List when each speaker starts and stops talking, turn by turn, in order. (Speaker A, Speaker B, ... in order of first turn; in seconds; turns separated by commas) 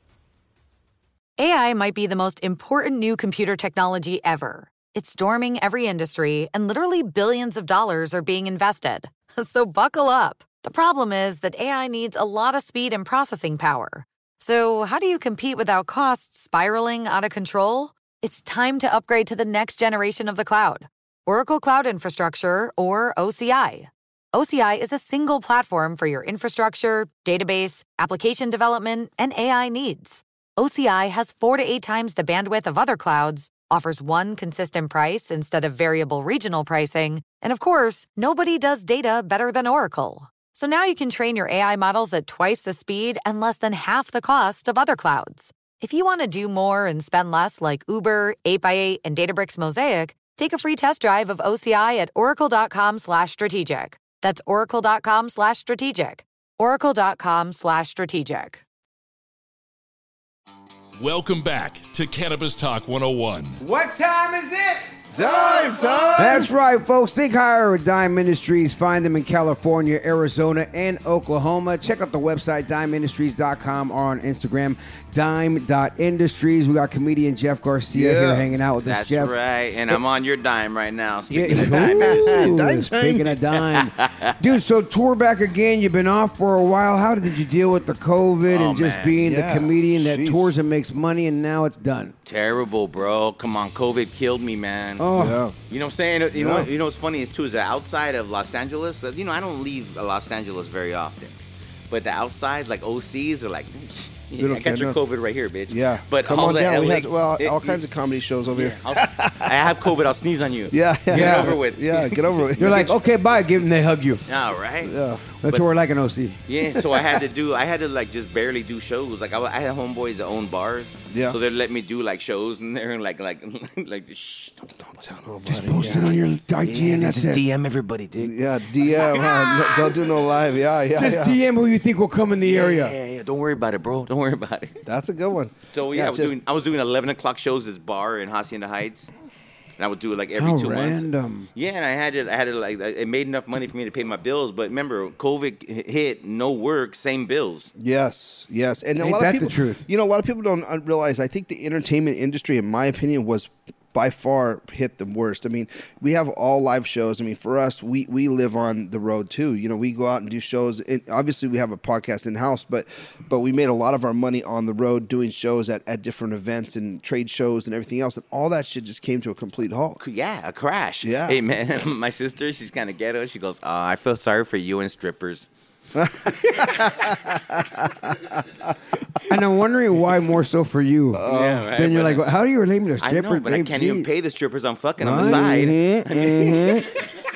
Speaker A: 1.4-58.6, Speaker B: 61.0-63.6, Speaker C: 63.6-79.3, Speaker D: 65.1-66.5, Speaker D: 77.9-78.5, Speaker E: 78.9-82.6, Speaker C: 81.3-92.1, Speaker D: 81.6-83.3, Speaker E: 83.5-84.4, Speaker E: 88.5-89.2, Speaker D: 89.2-90.5, Speaker E: 92.2-95.0, Speaker C: 95.0-95.4, Speaker D: 95.1-95.6, Speaker E: 95.7-101.4, Speaker D: 96.3-96.7, Speaker E: 101.9-107.8, Speaker D: 104.4-105.0, Speaker D: 105.7-109.6, Speaker E: 108.5-112.9, Speaker D: 110.7-112.9, Speaker C: 111.1-111.6, Speaker C: 112.6-114.2, Speaker E: 114.3-114.9, Speaker D: 114.8-115.3, Speaker C: 115.4-116.4, Speaker E: 116.5-124.7, Speaker D: 121.1-121.4, Speaker D: 124.8-126.1, Speaker C: 125.5-127.4, Speaker E: 125.8-129.9, Speaker D: 128.2-131.4, Speaker C: 130.9-132.9, Speaker E: 132.4-134.8, Speaker D: 134.9-136.3, Speaker E: 135.7-139.1, Speaker E: 139.8-147.7, Speaker C: 140.4-141.5, Speaker D: 147.8-170.0, Speaker C: 149.0-149.8, Speaker E: 170.0-175.5, Speaker D: 171.0-171.4, Speaker D: 175.9-178.7, Speaker C: 179.3-184.1, Speaker D: 181.2-181.7, Speaker E: 181.2-182.2, Speaker E: 183.0-186.9, Speaker C: 185.0-185.8, Speaker D: 185.1-186.8